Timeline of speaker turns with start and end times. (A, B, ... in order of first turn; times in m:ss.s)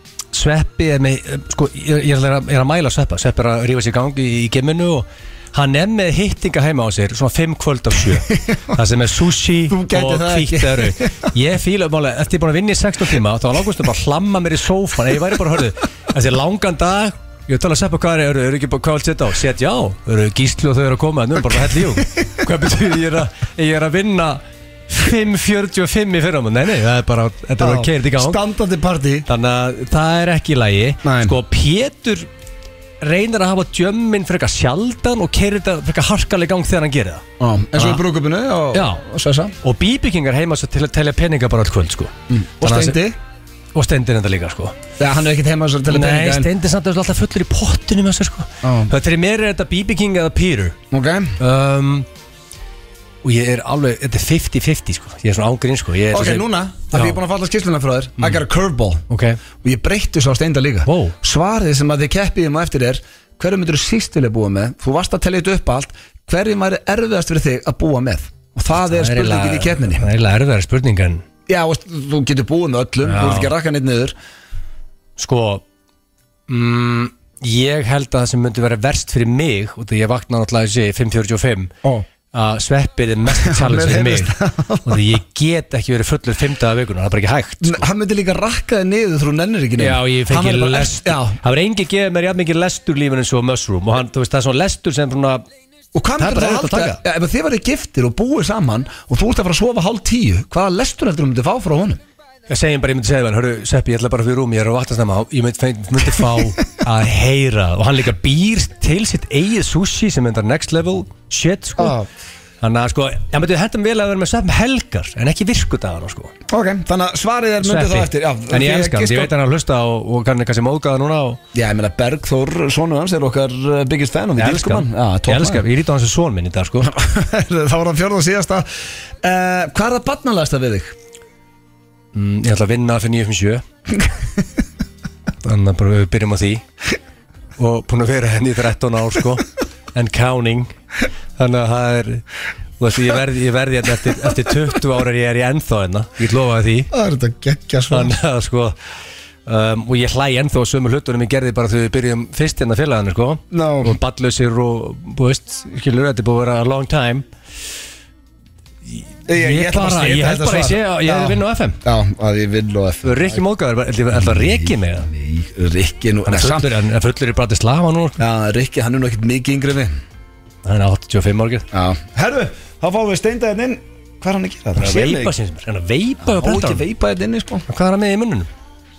0:00.3-0:28.4 A
0:08.2-0:08.8 B
0:09.7-0:11.3 B
0:27.6-0:29.2 B
0:29.3-0:32.3 A
0:31.0-0:31.3 B
0:33.0-0:37.2 A
0:37.4-0:39.5 B
0:37.8-0:38.0 A
0:38.7-0:39.0 A
0:39.6-0:43.0 A
0:42.3-0:43.2 B
0:43.7-0:44.7 A
0:45.0-0:46.5 B
0:45.9-0:50.8 A
0:48.6-0:48.9 B
0:50.9-0:51.4 B
0:51.4-0:52.0 A
0:53.2-0:57.2 A
0:56.1-0:59.0 B
0:59.1-0:59.4 A
0:59.6-1:10.1 B
1:00.8-1:01.1 A
1:08.7-1:11.2 A
1:11.5-1:14.1 B
1:13.0-1:13.5 A
1:15.2-1:15.6 A
1:16.5-1:21.7 A
1:22.3-1:24.3 A
1:23.4-1:25.1 B
1:24.8-1:27.8 A
1:27.6-1:31.4 B
1:29.8-1:35.4 A
1:35.9-1:42.0 B
1:36.2-1:37.0 A
1:42.5-1:52.0 A
1:51.8-1:52.1 B
1:52.6-1:56.3 A
1:56.5-1:59.3 B
1:57.6-2:01.4 A
2:01.5-2:05.6 B
2:04.4-2:06.9 A
2:06.9-2:08.7 B
2:09.2-2:10.9 B
2:12.1-2:13.6 A
2:15.4-2:16.6 A
2:17.6-2:20.7 A
2:21.4-2:22.2 A
2:22.8-2:26.9 A
2:26.9-2:28.1 B
2:27.9-2:28.8 A
2:29.4-2:37.2 A
2:33.5-2:34.0 B
2:38.9-2:41.8 A
2:39.3-2:43.4 B
2:43.0-2:45.1 A
2:44.2-2:46.7 B
2:46.3-2:48.2 A
2:48.2-2:49.9 B
2:50.6-2:51.6 A
2:51.7-2:55.3 B
2:54.8-2:56.8 A
2:56.2-2:57.6 B
2:57.7-2:58.5 A